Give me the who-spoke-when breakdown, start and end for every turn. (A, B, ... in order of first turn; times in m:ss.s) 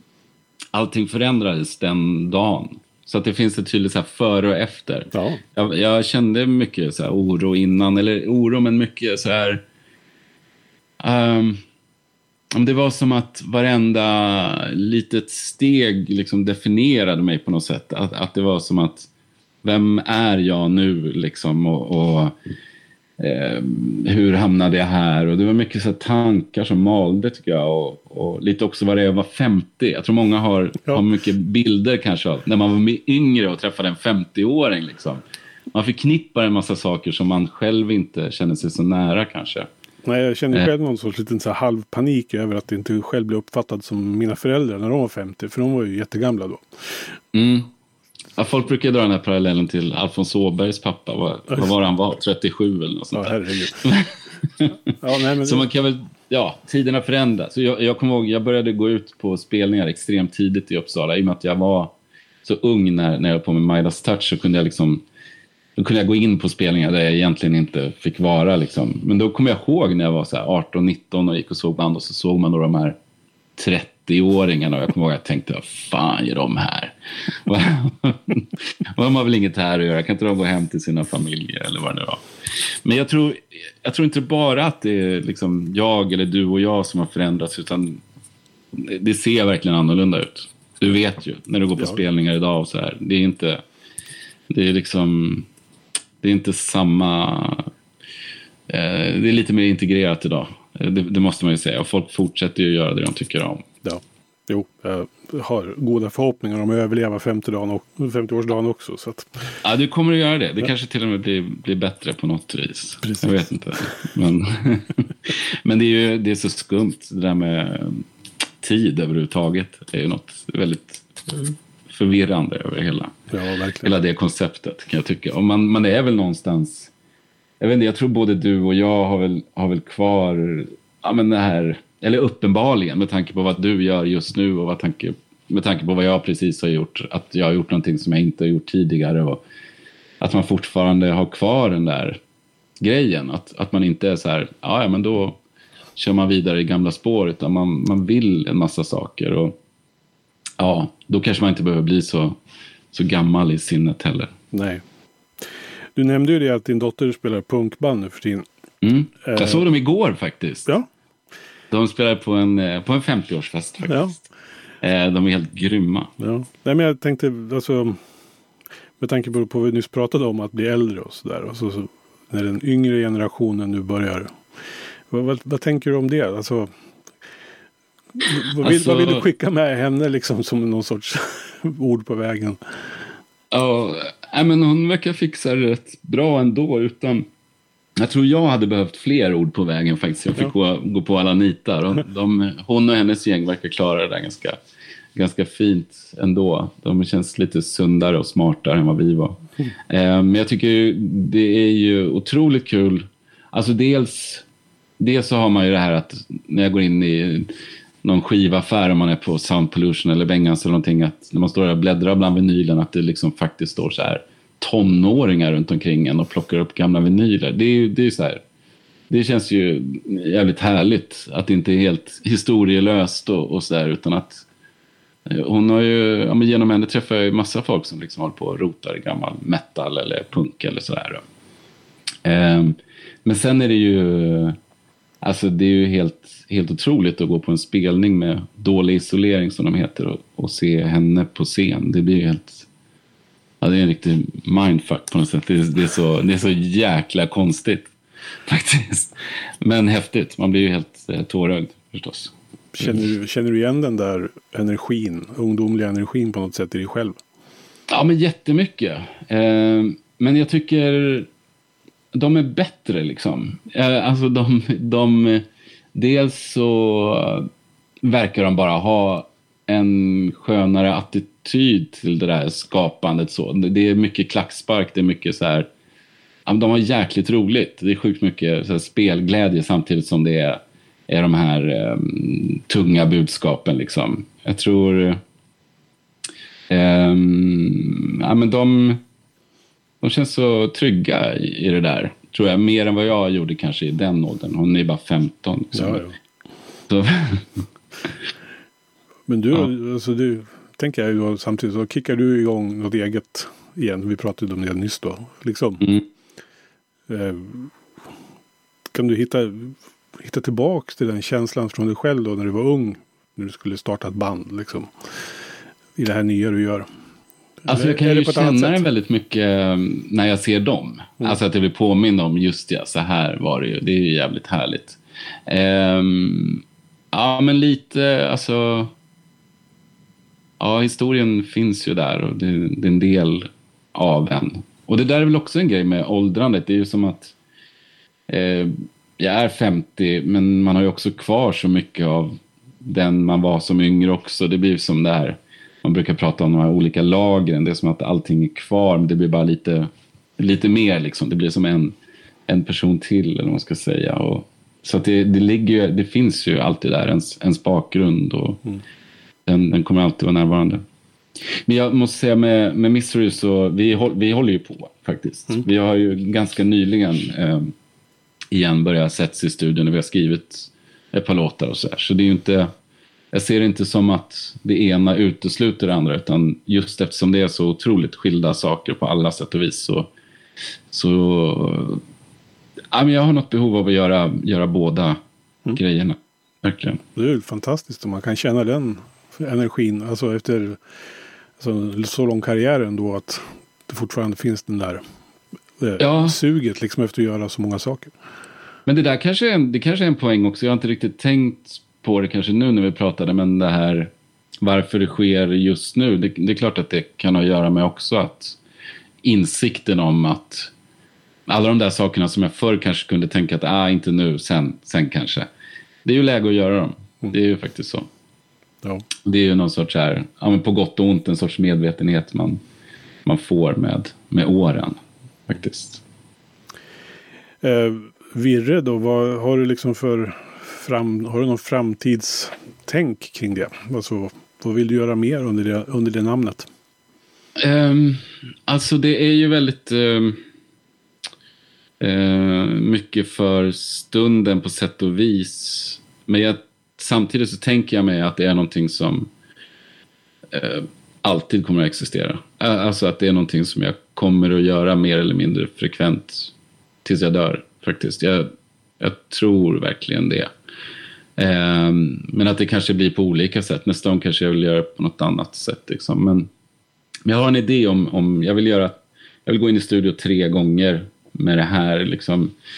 0:00.7-0:09.6 A
0:05.1-0:05.4 B
0:11.0-0:11.6 A
0:12.5-0:19.1 A
0:19.6-0:22.3 A
0:23.2-0:39.7 A
0:40.0-0:47.1 B
0:47.3-0:47.7 A
0:48.4-0:54.8 A
0:53.1-0:54.0 B
0:55.0-0:55.7 B
0:55.4-1:01.9 A
1:02.4-1:05.0 A
1:05.8-1:13.0 A
1:13.6-1:22.2 A
1:22.8-1:28.0 A
1:28.7-1:33.6 A
1:34.5-1:35.5 A
1:36.2-1:37.7 A
1:38.7-1:43.6 A
1:43.8-1:49.3 B
1:49.6-1:58.1 A
1:58.6-2:03.2 A
2:03.3-2:03.9 B
2:03.8-2:06.9 A
2:07.6-2:19.4 A
2:20.2-2:22.2 A
2:22.8-2:25.4 A
2:26.0-2:29.6 A
2:30.6-2:32.4 A
2:32.9-2:34.3 A
2:34.5-2:34.8 B
2:36.0-2:38.5 B
2:38.8-2:40.7 A
2:39.2-2:39.6 B
2:41.7-2:44.0 A
2:43.9-2:44.2 B
2:44.8-2:46.1 A
2:46.2-2:48.0 B
2:49.0-2:54.4 B
2:55.1-2:56.7 B
2:58.2-3:02.6 B
2:58.6-2:59.3 A
3:03.5-3:07.3 A
3:08.0-3:14.6 A
3:15.2-3:24.4 A
3:25.0-3:27.5 A
3:28.0-3:38.4 A
3:39.1-3:44.5 A
3:45.3-3:51.2 A
3:52.2-3:54.6 A
3:55.2-4:02.7 A
4:03.6-4:07.9 A
4:08.5-4:13.0 A
4:12.8-4:17.2 B
4:17.9-4:21.3 A
4:22.1-4:27.5 A
4:28.0-4:35.7 A
4:36.5-4:45.2 A
4:46.7-4:49.0 A
4:50.0-4:56.0 A
4:55.7-4:56.2 B
4:56.9-4:57.6 A
4:59.3-5:05.9 B
5:05.8-5:06.1 A
5:07.1-5:07.7 B
5:08.9-5:14.9 B
5:16.0-5:16.9 B
5:17.6-5:18.8 B
5:17.7-5:28.9 A
5:30.6-5:37.4 A
5:38.3-5:52.0 A
5:52.5-5:58.6 A
5:59.5-6:00.8 A
6:01.7-6:07.7 A
6:08.5-6:12.7 A
6:13.3-6:20.1 A
6:20.9-6:22.0 A
6:22.9-6:25.2 A
6:25.7-6:27.0 A
6:27.2-6:30.8 B
6:31.6-6:35.0 B
6:35.8-6:38.2 B
6:36.0-6:36.4 A
6:38.9-6:44.1 A
6:44.6-6:48.6 A
6:49.2-6:50.7 A
6:51.5-6:55.5 A
6:56.0-6:58.1 A
6:59.2-7:02.6 A
7:03.2-7:06.0 A
7:07.6-7:16.7 B
7:17.6-7:20.4 A
7:22.0-7:29.3 A
7:30.5-7:36.5 A
7:37.0-7:40.5 A
7:41.4-7:46.5 A
7:47.3-7:52.5 A